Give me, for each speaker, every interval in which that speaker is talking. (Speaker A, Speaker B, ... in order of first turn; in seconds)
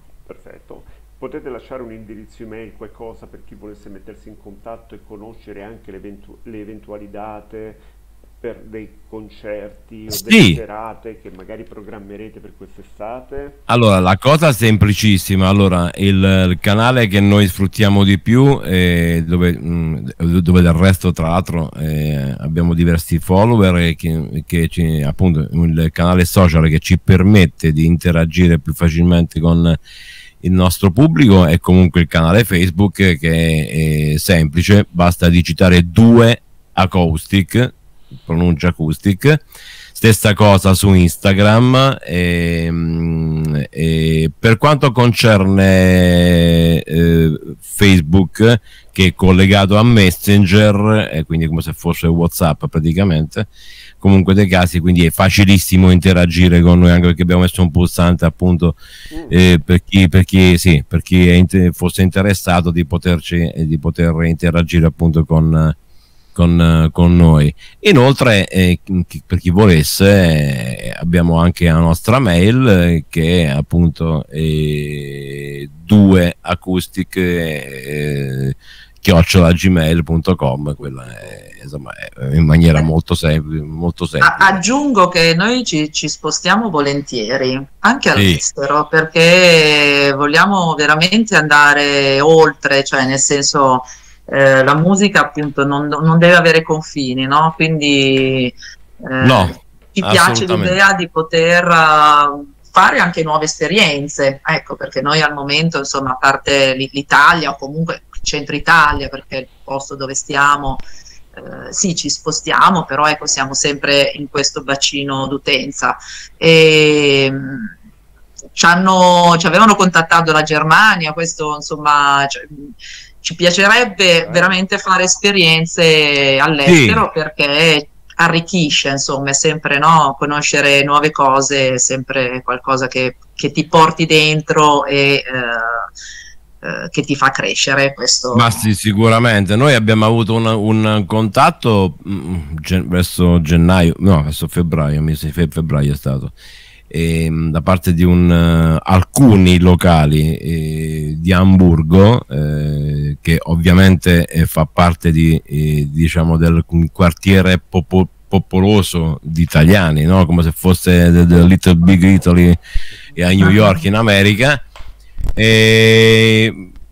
Speaker A: 0.3-7.8, 8.4-13.6, 59.1-59.4, 80.8-81.7, 124.2-124.6
Speaker B: 10.1-10.6, 13.7-29.8, 30.4-53.5, 54.0-58.8, 59.3-65.8, 66.3-84.6, 88.2-88.4, 99.2-100.8, 126.7-127.0, 138.3-146.3, 146.9-162.6, 163.2-164.6, 165.3-166.7
Speaker C: 84.2-117.7, 118.5-135.9, 136.6-138.6, 163.4-163.8